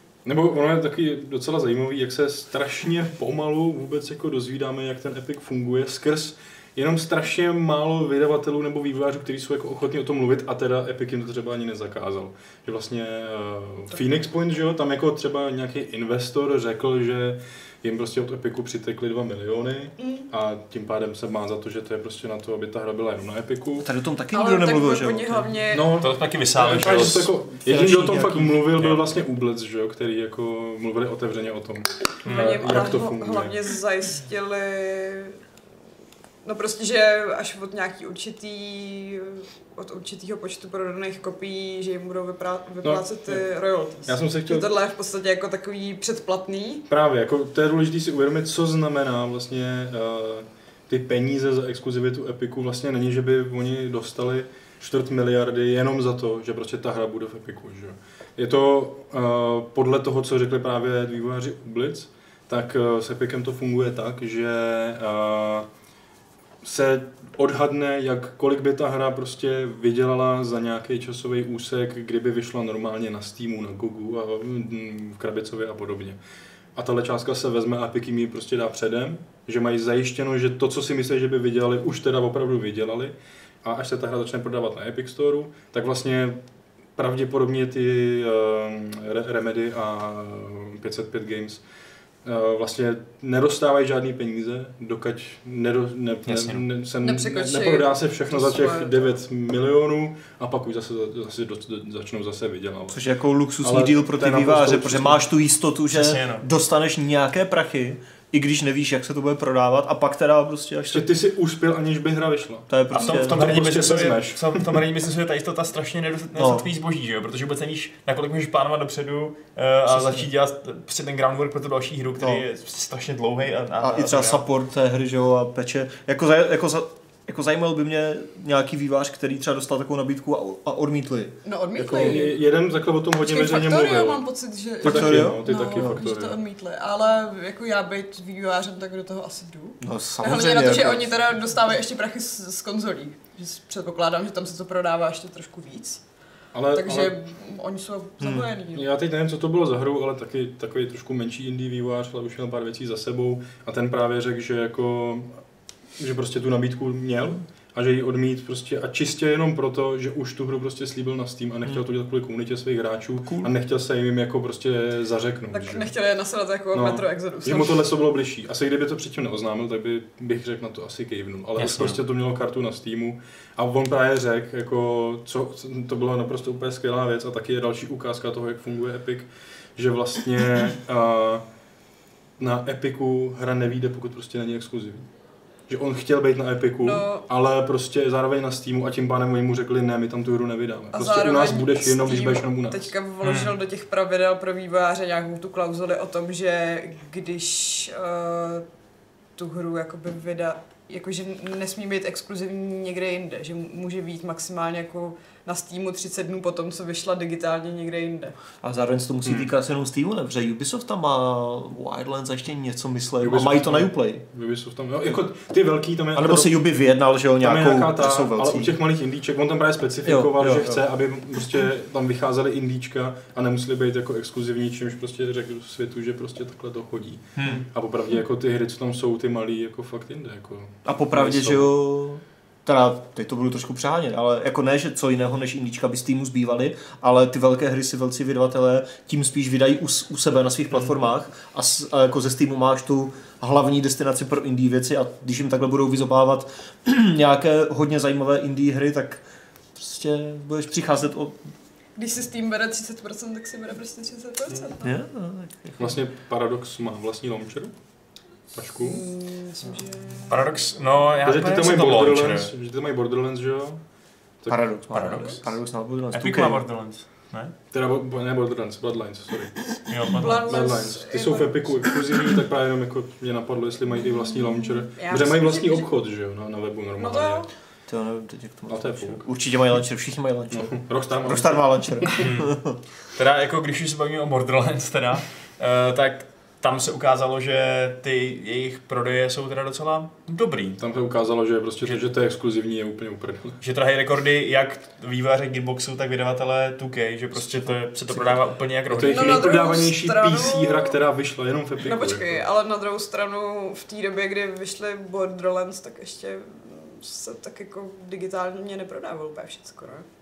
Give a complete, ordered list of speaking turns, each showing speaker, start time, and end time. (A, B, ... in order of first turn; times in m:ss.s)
0:00.2-0:23.9 A
0:20.0-0:20.3 B
0:23.8-0:25.6 C
0:24.3-0:26.0 B
0:25.7-0:33.6 A
0:26.0-0:27.3 D
0:27.6-0:28.7 C
0:28.8-0:29.1 D
0:32.2-0:35.4 B
0:32.3-0:32.6 D
0:36.4-0:46.8 B
0:42.8-0:43.4 A
0:44.1-0:44.7 A
0:46.9-1:05.7 A
1:06.6-1:16.2 A
1:16.8-1:26.4 A
1:27.0-1:31.6 A
1:32.2-1:43.0 A
1:36.3-1:36.6 D
1:37.0-1:39.1 B
1:42.9-1:51.1 C
1:43.6-1:45.2 A
1:45.9-1:46.4 D
1:50.9-1:54.8 A
1:52.7-1:53.5 C
1:52.9-2:04.4 D
1:56.4-1:56.7 C
1:59.9-2:00.3 C
2:02.2-2:02.4 C
2:03.8-2:11.4 C
2:11.4-2:12.4 B
2:11.8-2:14.2 A
2:13.2-2:26.0 B
2:14.8-2:16.4 A
2:14.8-2:16.0 C
2:19.8-2:21.2 C
2:26.5-2:27.2 A
2:26.7-2:28.8 B
2:28.2-2:28.5 C
2:28.7-2:35.3 A
2:36.0-2:45.9 A
2:45.5-2:47.8 B
2:46.7-3:01.4 A
2:51.6-2:52.0 D
3:02.4-3:05.1 A
3:05.7-3:12.9 A
3:06.8-3:07.2 B
3:10.9-3:18.6 B
3:13.2-3:13.6 D
3:19.4-3:28.4 B
3:28.6-3:34.2 C
3:29.2-3:29.5 A
3:33.2-3:36.6 A
3:36.1-3:38.8 C
3:37.4-3:51.7 A
3:40.0-3:40.8 C
3:47.4-3:47.6 D
3:50.9-4:09.2 C
4:09.8-4:11.4 C
4:12.0-4:14.9 B
4:14.8-4:16.0 C
4:15.8-4:17.7 A
4:18.5-4:19.0 A
4:18.8-4:20.5 B
4:20.3-4:22.5 D
4:21.2-4:23.8 A
4:24.4-4:24.7 A
4:24.5-4:26.6 C
4:24.9-4:25.5 D
4:26.1-4:27.5 D
4:27.7-4:29.8 A
4:29.9-4:30.5 D
4:30.1-4:31.7 B
4:30.3-4:37.4 A
4:34.4-4:35.9 B
4:37.0-4:37.5 B
4:37.9-4:42.8 C
4:38.7-4:39.2 A
4:40.5-4:42.1 A
4:42.1-4:42.6 D
4:43.2-4:50.8 D
4:50.8-4:53.6 A
4:51.8-4:52.1 D
4:53.6-4:59.5 D
4:58.9-5:02.4 A
4:59.1-5:01.0 B
5:01.8-5:10.1 B